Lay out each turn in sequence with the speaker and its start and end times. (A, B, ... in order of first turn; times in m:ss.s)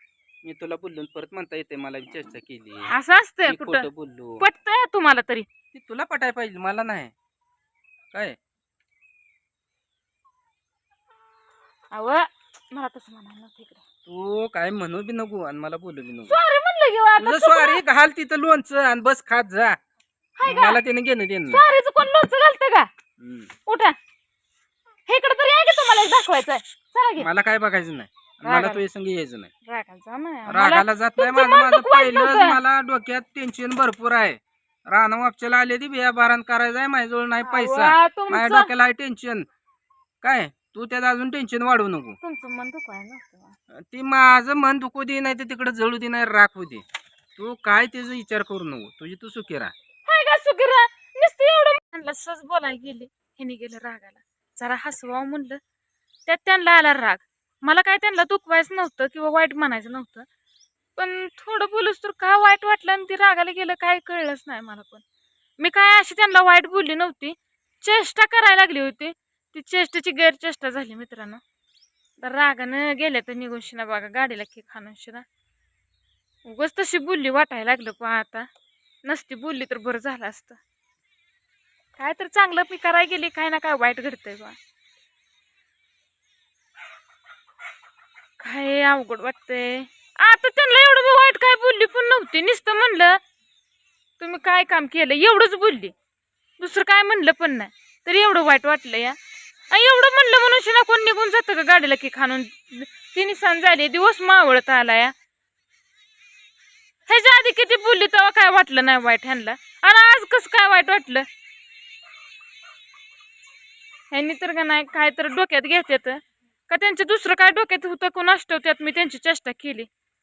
0:00.4-0:02.9 A
0:02.9-0:03.9 B
0:03.4-0:04.4 A
0:04.4-0:05.5 B
0:05.7-0:07.1 A
0:08.1-0:08.4 A
0:11.9-0:13.8 B
0:14.0-0:16.4 A
0:16.3-0:17.8 B
0:17.2-0:19.8 A
0:20.4-0:20.8 B
0:20.4-0:21.6 A
0:21.4-0:22.9 B
0:23.2-0:23.5 A
0:23.6-0:24.0 B
0:25.1-0:27.3 B
0:27.2-0:29.5 A
0:28.4-0:28.8 B
0:29.6-0:32.6 B
0:30.5-0:39.5 A
0:37.4-0:38.7 B
0:40.2-0:42.2 A
0:42.2-0:43.6 B
0:43.7-0:46.8 A
0:47.4-0:49.7 A
0:50.0-0:55.6 B
0:56.3-1:00.3 B
1:01.0-1:05.0 B
1:05.6-1:11.4 B
1:12.2-1:15.2 B
1:16.4-1:18.5 B
1:19.0-1:20.6 B
1:22.0-1:24.6 B
1:28.4-1:33.2 B
1:34.2-1:35.9 B
1:36.6-1:39.2 B
1:39.7-1:45.1 B
1:47.1-1:51.2 B
1:54.1-1:59.9 B